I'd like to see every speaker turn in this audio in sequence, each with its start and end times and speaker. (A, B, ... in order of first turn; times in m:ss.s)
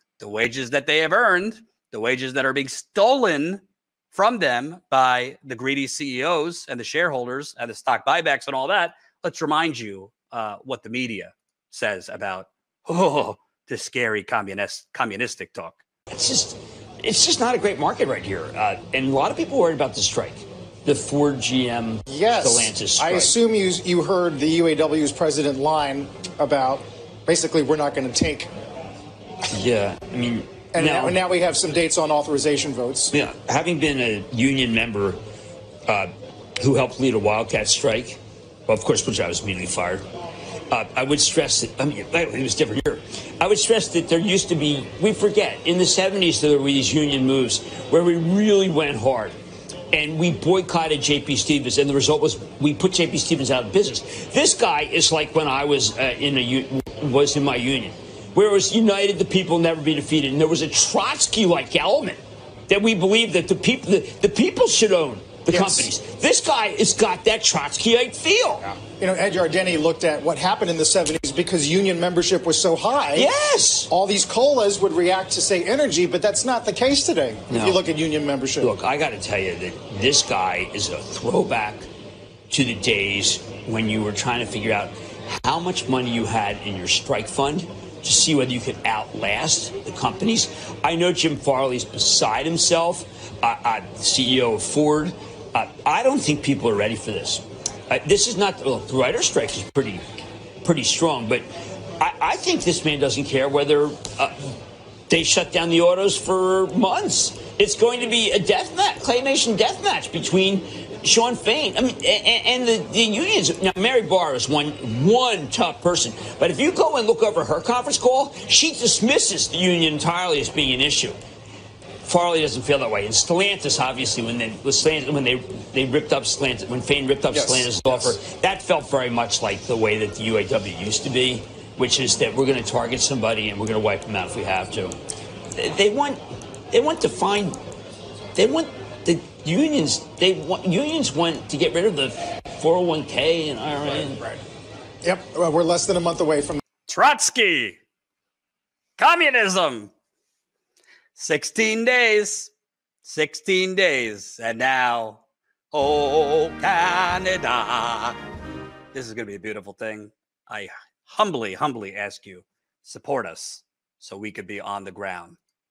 0:00.2-0:15.8 A
0:16.1-0:23.3 B
0:22.1-0:28.5 C
0:29.5-0:31.2 B
0:30.7-0:33.1 C
0:33.1-0:35.2 B
0:35.9-0:40.0 B
0:40.7-0:49.4 B
0:49.9-1:08.8 B
1:05.5-1:05.9 C
1:08.8-1:13.3 C
1:13.1-1:13.9 B
1:13.9-1:18.7 C
1:17.5-1:17.8 B
1:18.6-1:21.9 B
1:22.5-1:40.0 B
1:40.6-1:41.4 B
1:42.0-1:44.3 B
1:45.1-2:01.2 B
2:02.0-2:14.9 B
2:07.3-2:08.1 C
2:15.6-2:16.2 B
2:16.7-2:17.6 B
2:18.3-2:24.3 B
2:25.0-2:26.6 C
2:26.9-2:27.8 A
2:29.0-2:29.9 A
2:31.1-2:32.5 A
2:33.0-2:38.2 A
2:38.9-2:45.4 A